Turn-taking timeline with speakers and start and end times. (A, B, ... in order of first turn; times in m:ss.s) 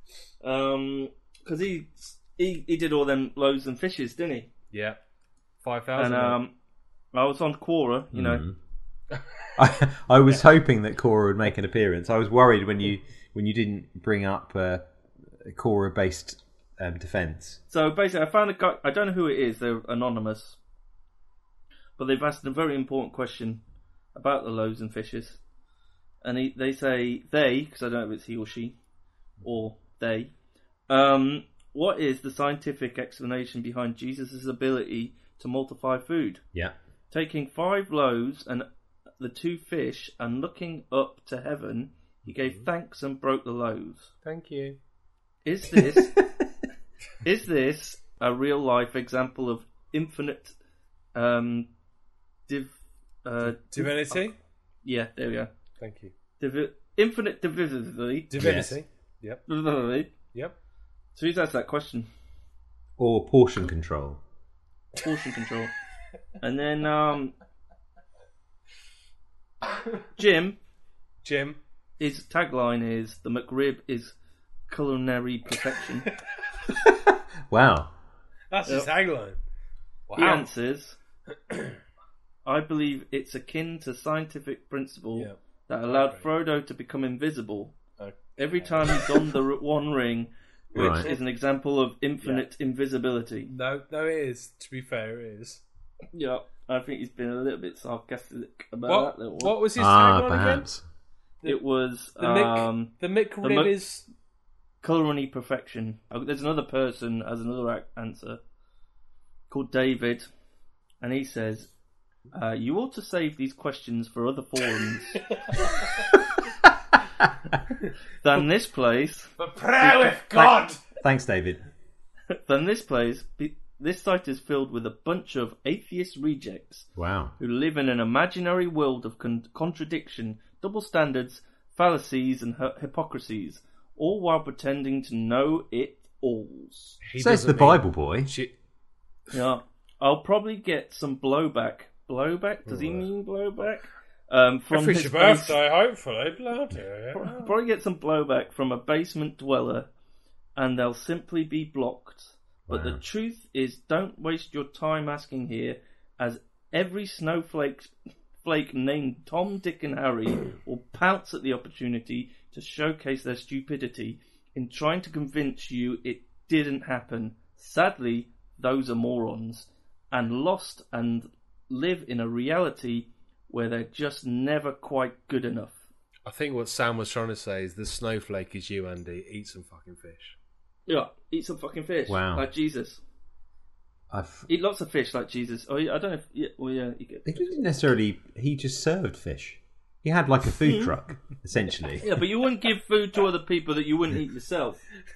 0:00.4-0:04.5 A
0:04.7-0:05.0 B
0:05.6-0:06.4 B
0:06.0-0:06.5 A
0:07.1-0:08.4 A
0:08.1-0:08.6 C
0:09.6-0:14.9 C
0:15.4-0:17.6 C
0:17.7-0:20.6 A
0:22.0-0:23.6 A
0:24.1-0:25.4 A
0:26.2-0:28.8 A
0:29.4-0:30.3 A
0:30.9-0:36.4 A
0:37.1-0:38.6 A
0:39.2-0:44.1 A
0:44.2-0:44.8 B
0:45.4-0:46.2 A
0:47.2-0:50.5 A
0:51.1-0:51.7 A
0:52.5-0:54.3 A
0:53.4-0:54.4 B
0:54.8-0:55.5 A
0:55.8-0:56.1 B
0:56.4-0:58.3 A
0:58.3-0:59.4 B
0:58.4-0:58.8 C
0:59.5-1:00.1 A
1:01.2-1:02.1 A
1:03.0-1:04.2 C
1:05.0-1:05.7 A
1:06.4-1:07.3 A
1:10.2-1:10.6 A
1:11.2-1:11.6 B
1:12.0-1:14.1 A
1:14.7-1:16.1 A
1:17.5-1:17.9 C
1:18.5-1:19.4 B
1:20.1-1:20.5 B
1:20.2-1:21.0 A
1:21.3-1:21.8 B
1:22.4-1:27.7 A
1:25.9-1:26.2 B
1:28.0-1:29.3 B
1:28.4-1:33.5 A
1:30.7-1:31.2 B
1:30.7-1:31.1 C
1:33.5-1:35.6 B
1:36.1-1:39.6 A
1:38.8-1:40.7 B
1:39.8-1:40.8 C
1:41.4-1:43.7 A
1:42.2-1:44.0 B
1:44.8-1:48.4 A
1:49.5-1:50.2 A
1:51.0-1:51.7 A
1:52.3-1:55.2 A
1:55.1-1:56.0 B
1:58.2-2:00.1 A
1:59.4-2:00.8 B
2:00.3-2:01.6 C
2:02.4-2:06.9 A
2:07.0-2:07.3 C
2:07.4-2:17.0 A
2:17.0-2:18.5 B
2:17.2-2:18.3 C
2:19.3-2:25.6 A
2:22.6-2:23.1 B
2:24.7-2:27.5 B
2:27.1-2:29.9 A
2:30.6-2:55.8 A
2:32.7-2:33.0 C
2:56.2-3:00.4 B
3:00.9-3:03.0 A
3:02.1-3:02.4 C
3:04.1-3:04.5 C
3:04.5-3:07.5 A
3:07.2-3:12.0 C
3:10.6-3:10.9 A
3:12.0-3:14.8 A